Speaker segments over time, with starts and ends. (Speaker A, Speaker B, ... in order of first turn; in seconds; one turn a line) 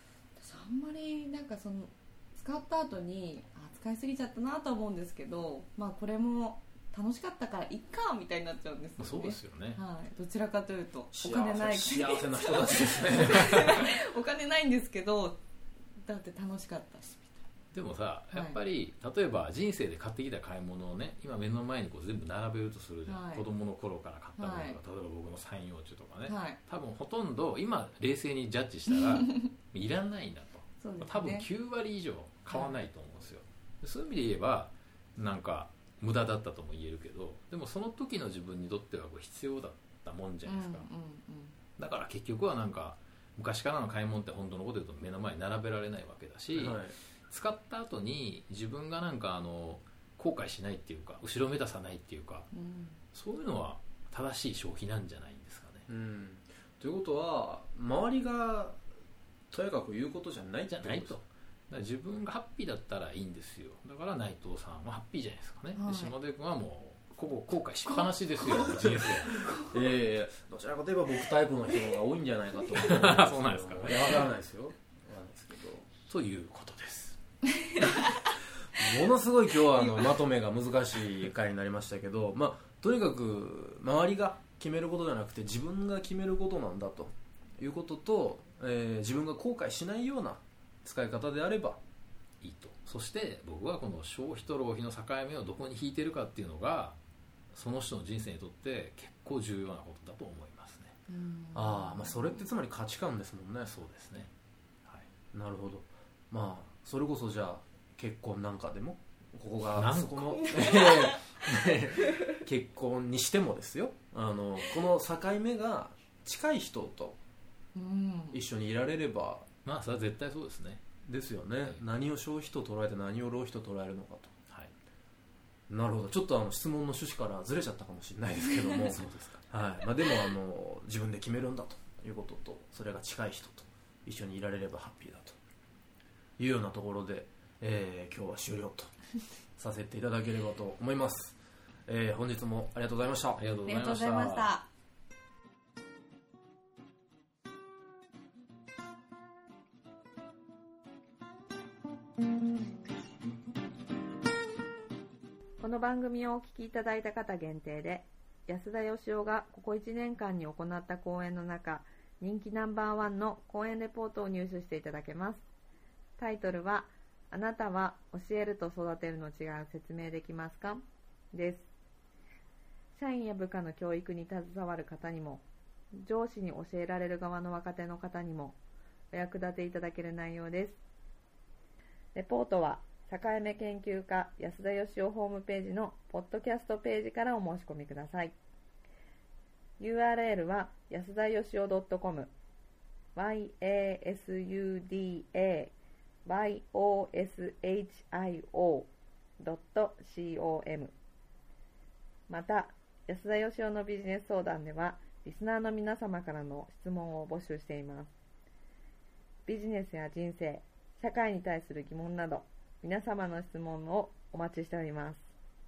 Speaker A: 0.4-15.4
Speaker B: 9.0-9.8
Speaker C: 11.1-13.9
Speaker A: 16.0-17.4
Speaker B: 17.7-40.9
Speaker A: 18.3-18.6
Speaker A: 23.1-23.4
Speaker A: 24.4-24.8
Speaker A: 26.2-26.6
Speaker A: 30.8-31.5
Speaker A: 32.5-32.7
Speaker A: 40.4-41.5
Speaker B: 41.8-52.5
Speaker C: 46.5-47.0
Speaker A: 52.5-53.0
Speaker B: 53.1-55.9
Speaker C: 55.9-58.8
Speaker C: 59.5-61.1
Speaker B: 60.7-69.6
Speaker A: 65.7-66.1
Speaker C: 69.3-75.9
Speaker B: 72.7-74.3
Speaker B: 76.1-77.2
Speaker C: 78.8-91.8
Speaker B: 92.4-97.0
Speaker B: 97.5-100.9
Speaker A: 101.1-102.4
Speaker C: 101.5-103.7
Speaker B: 103.7-104.3
Speaker C: 105.3-117.2
Speaker B: 109.7-110.7
Speaker A: 110.7-111.2
Speaker A: 117.7-118.4
Speaker C: 118.3-119.5
Speaker B: 119.6-120.8
Speaker C: 121.0-124.3
Speaker C: 125.7-135.4
Speaker C: 136.4-138.9
Speaker C: 139.6-143.4
Speaker B: 143.3-144.5
Speaker A: 143.6-144.7
Speaker A: 155.6-165.4
Speaker A: 166.2-171.7
Speaker A: 172.9-175.4
Speaker A: 175.9-178.6
Speaker A: 179.1-180.8
Speaker A: 182.1-188.3
Speaker A: 189.8-192.3
Speaker A: 193.1-195.7
Speaker A: 196.2-200.9
Speaker A: 202.3-208.1
Speaker A: 209.4-215.2